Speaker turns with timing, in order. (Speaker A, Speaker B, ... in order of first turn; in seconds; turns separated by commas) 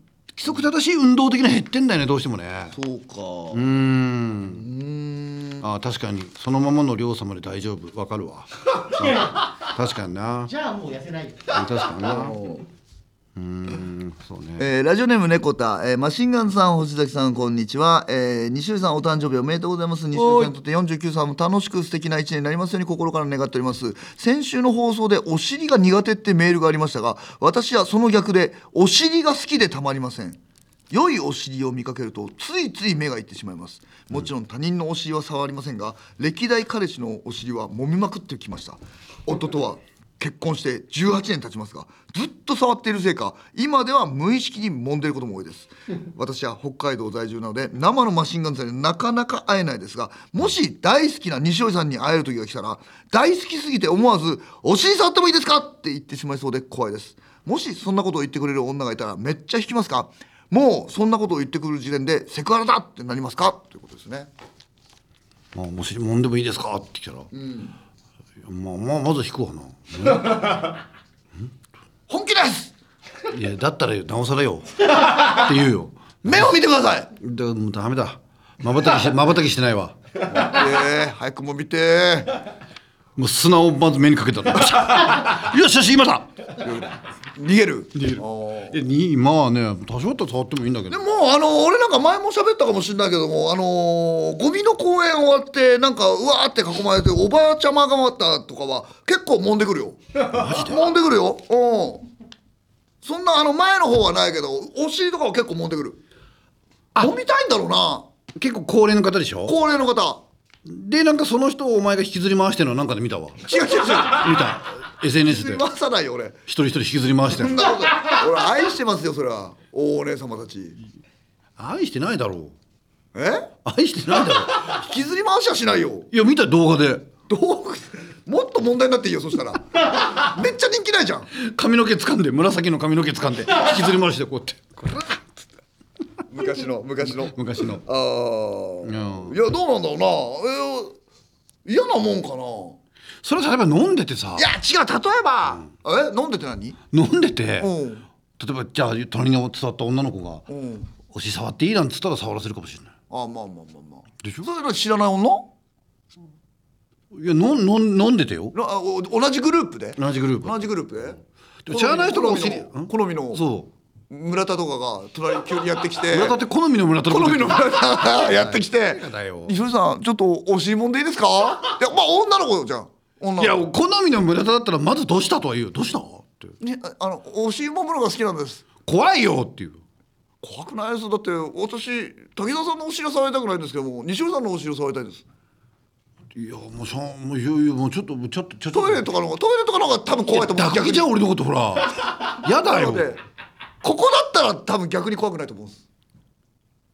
Speaker A: 0.3-2.8, Speaker B: 2.7-3.6, Speaker A: 3.5-4.7, Speaker B: 4.5-5.6, Speaker A: 5.6-10.5, Speaker C: 8.9-9.5, Speaker C: 10.5-12.2, Speaker A: 11.5-12.4, Speaker B: 12.1-12.6, Speaker A: 13.3-14.7, Speaker B: 14.6-30.4, Speaker A: 20.1-20.5, Speaker B: 30.9-64.3, Speaker A: 65.5-67.3, Speaker B: 67.3-67.7, Speaker A: 68.4-70.7, Speaker B: 72.1-72.7, Speaker A: 73.3-76.5, Speaker B: 76.2-77.1, Speaker A: 77.2-80.0, Speaker B: 80.3-82.4, Speaker A: 83.2-86.3, Speaker B: 86.6-88.8, Speaker A: 87.9-91.0, Speaker B: 90.9-102.0, Speaker A: 100.2-100.9, Speaker B: 103.0-106.0, Speaker B: 107.0-108.1, Speaker A: 108.3-109.6, Speaker B: 109.5-110.2, Speaker A: 110.6-115.6, Speaker B: 113.4-114.5, Speaker B: 115.2-116.4, Speaker A: 116.5-117.7, Speaker B: 117.3-120.8, Speaker A: 121.6-122.5, Speaker B: 123.1-123.5, Speaker A: 123.6-124.8, Speaker B: 124.3-126.1, Speaker A: 126.1-127.1, Speaker B: 127.3-131.3, Speaker A: 131.3-135.2, Speaker B: 136.3-141.0, Speaker A: 137.2-137.8, Speaker A: 138.8-139.4, Speaker B: 141.6-142.8, Speaker A: 143.2-144.5, Speaker B: 144.3-146.8, Speaker A: 146.9-147.7, Speaker B: 147.6-148.0, Speaker A: 148.4-150.4, Speaker B: 150.5-150.9, Speaker A: 151.1-152.9, Speaker B: 153.1-155.5, Speaker A: 157.1-158.5, Speaker B: 158.5-163.4, Speaker A: 160.0-161.1, Speaker A: 161.7-163.7, Speaker B: 164.1-166.4, Speaker A: 166.0-169.5, Speaker B: 167.1-173.6, Speaker A: 173.4-176.5, Speaker B: 176.6-178.7, Speaker A: 178.8-179.8, Speaker B: 180.4-185.2, Speaker A: 186.3-189.0, Speaker B: 188.7-191.1, Speaker A: 190.2-193.1, Speaker B: 192.4-193.2, Speaker B: 193.8-195.8